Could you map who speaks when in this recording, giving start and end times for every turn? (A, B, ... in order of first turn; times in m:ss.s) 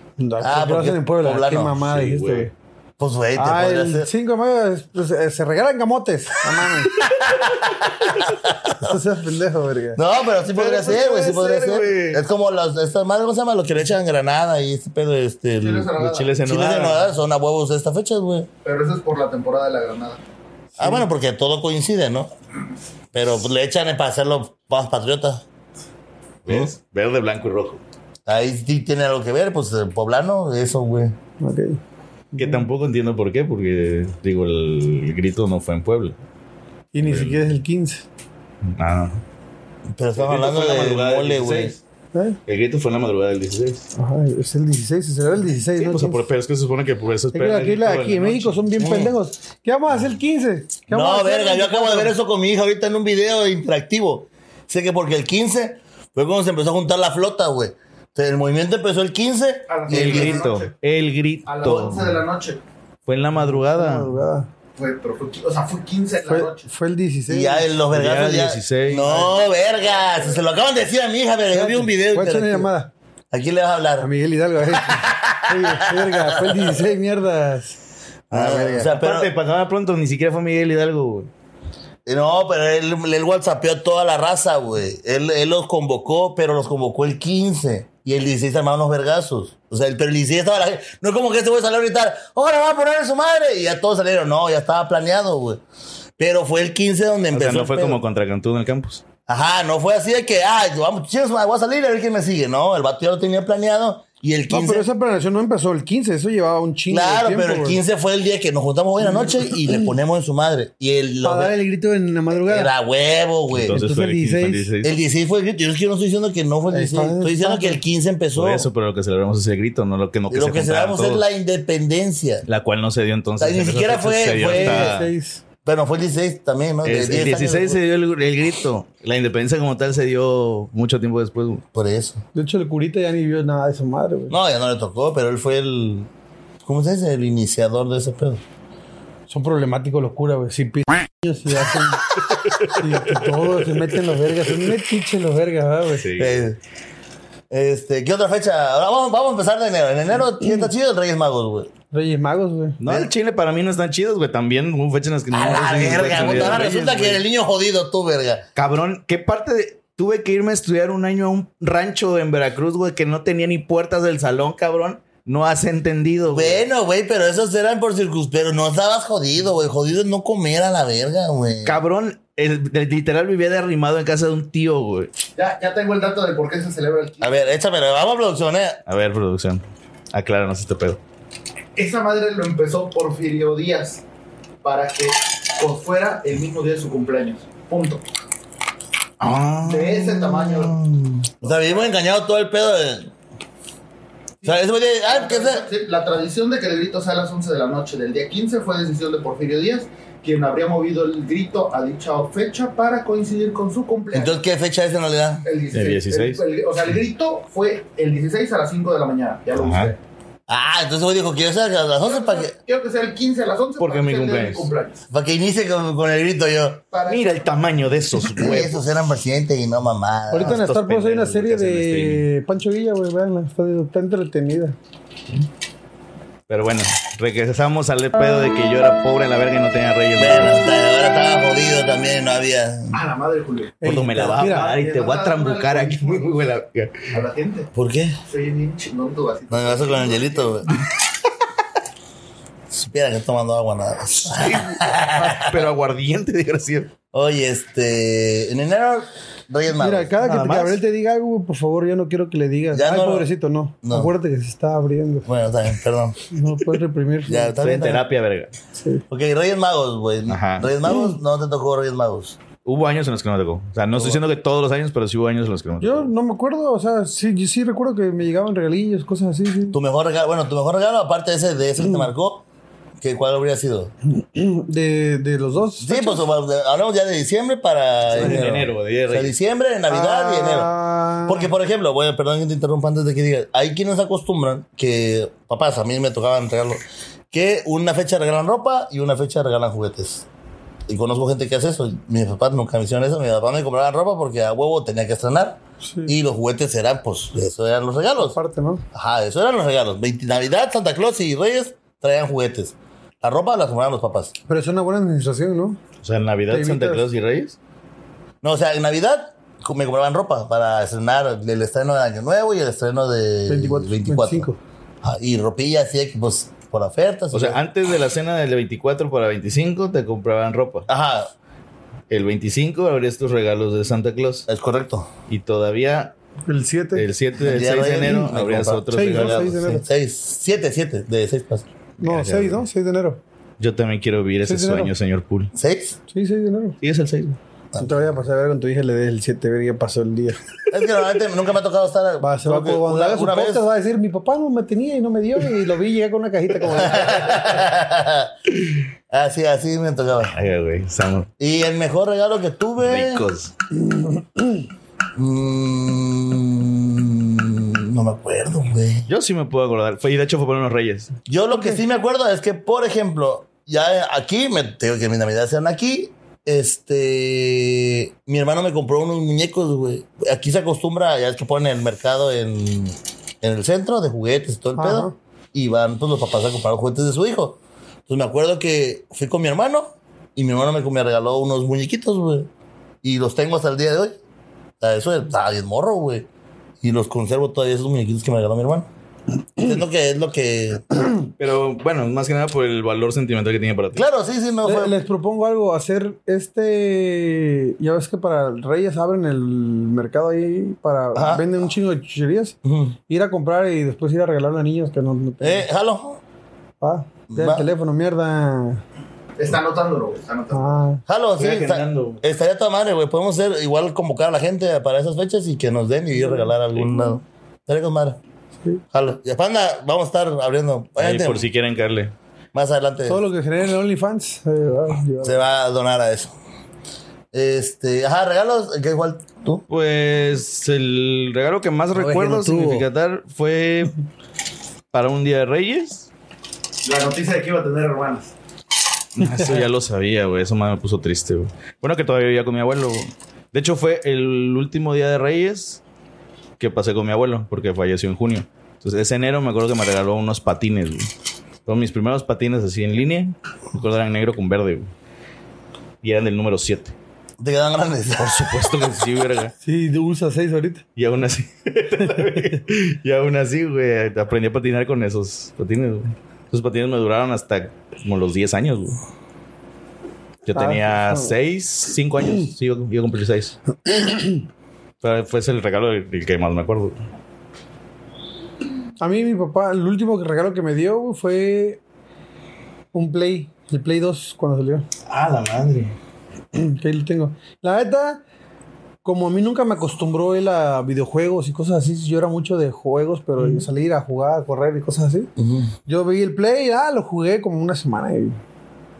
0:00.2-0:02.5 A
0:00.4-0:01.8 B
0:01.8-0:02.5 C
0:03.0-0:04.1 B
0:03.4-0:06.9 A
0:07.0-0:09.0 B
0:08.8-0:10.0 A
0:10.0-0:15.9 B
0:10.5-0:12.2 C
0:15.6-0:16.4 D
0:16.0-0:17.0 C
0:16.4-0:18.5 B
0:18.6-0:20.2 D
0:20.8-0:22.3 B
0:23.1-0:25.4 B
0:26.4-0:27.8 C
0:28.3-0:31.1 B
0:31.4-0:31.8 A
0:32.3-0:32.7 A
0:32.4-0:36.2 C
0:36.9-0:38.0 A
0:37.0-0:37.4 C
0:38.6-0:39.2 C
0:40.0-0:41.7 B
0:40.2-0:41.8 C
0:42.5-0:43.8 C
0:44.0-0:46.2 A
0:45.8-0:48.6 C
0:47.3-0:52.1 A
0:48.8-0:49.1 B
0:50.9-1:00.5 B
0:59.7-1:00.7 D
0:59.9-1:02.2 C
1:01.4-1:02.6 D
1:03.0-1:04.1 C
1:03.4-1:04.5 A
1:04.8-1:06.7 D
1:06.2-1:07.6 A
1:07.3-1:12.7 B
1:07.9-1:09.2 C
1:09.9-1:10.4 D
1:11.5-1:12.9 A
1:13.3-1:14.1 B
1:14.0-1:17.8 A
1:14.7-1:16.8 B
1:18.3-1:18.9 A
1:18.3-1:19.3 B
1:18.9-1:21.3 C
1:22.0-1:35.6 B
1:36.2-1:38.0 B
1:37.3-1:39.0 C
1:39.3-1:44.9 B
1:44.5-1:47.8 A
1:46.9-1:51.5 B
1:51.2-1:52.7 A
1:52.3-1:53.8 B
1:53.5-1:54.9 C
1:53.7-1:54.7 A
1:54.8-1:58.7 B
1:56.7-1:57.8 A
1:58.3-2:01.2 C
2:00.3-2:02.4 B
2:02.5-2:05.1 C
2:03.4-2:05.0 B
2:04.5-2:05.4 A
2:05.6-2:07.8 B
2:06.8-2:11.6 C
2:11.7-2:12.2 B
2:12.3-2:14.3 A
2:14.3-2:16.1 B
2:16.6-2:18.4 B
2:19.3-2:26.0 A
2:22.6-2:23.3 C
2:25.9-2:26.5 C
2:26.2-2:26.6 B
2:27.5-2:31.7 B
2:31.9-2:32.8 A
2:32.8-2:37.2 C
2:35.3-2:38.4 B
2:35.6-2:36.9 A
2:38.6-2:46.6 C
2:46.3-2:51.8 B
2:51.6-2:55.1 C
2:55.4-2:57.4 D
2:57.2-2:58.8 B
2:58.9-3:01.0 C
3:01.8-3:04.0 D
3:04.6-3:08.0 D
3:09.2-3:10.1 C
3:09.6-3:10.8 D
3:09.9-3:13.1 B
3:11.4-3:11.8 D
3:14.4-3:15.6 B
3:14.4-3:24.4 D
3:24.1-3:25.4 B
3:25.4-3:30.0 D
3:25.7-3:26.4 C
3:29.5-3:29.9 C
3:30.5-3:32.5 B
3:32.0-3:35.0 D
3:33.8-3:34.7 C
3:35.1-3:36.8 B
3:36.9-3:37.4 D
3:37.1-3:38.8 C
3:38.4-3:40.6 B
3:40.3-3:44.8 A
3:40.4-3:42.2 C
3:46.5-3:50.6 C
3:50.2-3:53.0 B
3:52.9-3:56.3 D
3:53.8-3:54.7 A
3:53.8-3:57.1 C
3:57.1-3:57.7 D
3:57.7-3:58.2 B
3:58.3-4:00.6 D
3:59.5-4:00.7 B
4:02.7-4:05.7 B
4:04.3-4:06.9 C
4:07.1-4:10.1 B
4:09.8-4:15.3 A
4:10.2-4:10.8 C
4:12.7-4:13.3 B
4:13.8-4:14.1 B
4:15.2-4:16.2 B
4:16.3-4:17.6 A
4:17.3-4:18.0 B
4:17.6-4:18.5 C
4:18.7-4:19.0 A
4:19.1-4:22.4 B
4:20.3-4:20.7 C
4:20.9-4:21.1 A
4:22.6-4:26.1 C
4:25.8-4:29.8 A
4:29.7-4:32.4 B
4:33.0-4:33.9 B
4:34.1-4:36.2 A
4:35.8-4:40.7 B
4:38.1-4:39.3 C
4:39.9-4:41.5 A
4:41.2-4:50.2 B
4:50.9-4:58.4 B
4:55.8-4:56.1 A
4:58.2-4:58.8 A
4:58.9-5:04.3 B
5:04.5-5:05.8 A
5:06.0-5:07.6 C
5:06.5-5:07.0 A
5:08.4-5:14.5 B
5:13.5-5:14.6 A
5:15.0-5:17.6 B
5:17.3-5:20.8 C
5:20.9-5:21.3 B
5:22.1-5:24.4 C
5:24.5-5:25.1 B
5:25.3-5:26.1 C
5:26.5-5:27.0 A
5:26.9-5:29.6 C
5:27.4-5:31.7 B
5:28.9-5:29.8 A
5:32.0-5:32.6 C
5:32.0-5:33.2 A
5:33.6-5:35.5 C
5:34.4-5:34.9 A
5:35.5-5:36.0 B
5:36.1-5:36.8 A
5:36.8-5:37.4 C
5:37.8-5:40.4 A
5:40.7-5:43.6 B
5:42.2-5:47.3 A
5:46.6-5:50.4 B
5:50.3-5:51.3 C
5:51.4-5:53.2 B
5:52.8-5:53.5 C
5:53.9-5:54.6 A
5:55.2-5:59.1 B
5:59.1-6:01.1 C
6:01.3-6:22.5 B
6:01.5-6:01.8 A
6:14.8-6:15.1 A
6:23.0-6:24.2 B
6:24.8-6:26.2 B
6:26.8-6:28.9 B
6:29.6-6:31.1 B
6:31.4-6:34.0 C
6:33.9-6:35.0 B
6:34.6-6:42.6 A
6:41.1-6:41.5 B
6:42.6-6:43.0 B
6:43.1-6:45.6 A
6:45.4-6:46.2 B
6:46.8-6:48.8 A
6:47.3-6:47.7 B
6:49.4-6:50.7 D
6:50.5-6:51.0 A
6:51.1-6:58.2 B
6:51.4-6:52.2 C
6:58.9-7:01.5 B
7:01.0-7:02.1 C
7:02.5-7:03.2 B
7:03.0-7:05.4 A
7:05.2-7:06.3 B
7:07.3-7:09.6 B
7:09.7-7:14.0 C
7:11.9-7:12.8 A
7:14.9-7:16.1 C
7:16.8-7:18.3 D
7:19.2-7:25.8 C
7:26.6-7:31.1 C
7:31.6-7:34.9 C
7:36.0-7:36.9 C
7:37.4-7:38.7 B
7:38.2-7:39.5 C
7:39.6-7:40.8 A
7:41.0-7:49.0 C
7:50.4-7:53.6 C
7:50.6-7:51.3 A
7:54.0-7:54.4 A
7:55.0-7:57.0 C
7:59.0-8:01.8 A
8:02.9-8:04.8 A
8:05.1-8:05.9 C
8:06.5-8:08.2 A
8:09.0-8:15.3 A
8:15.4-8:15.7 B
8:15.9-8:18.4 A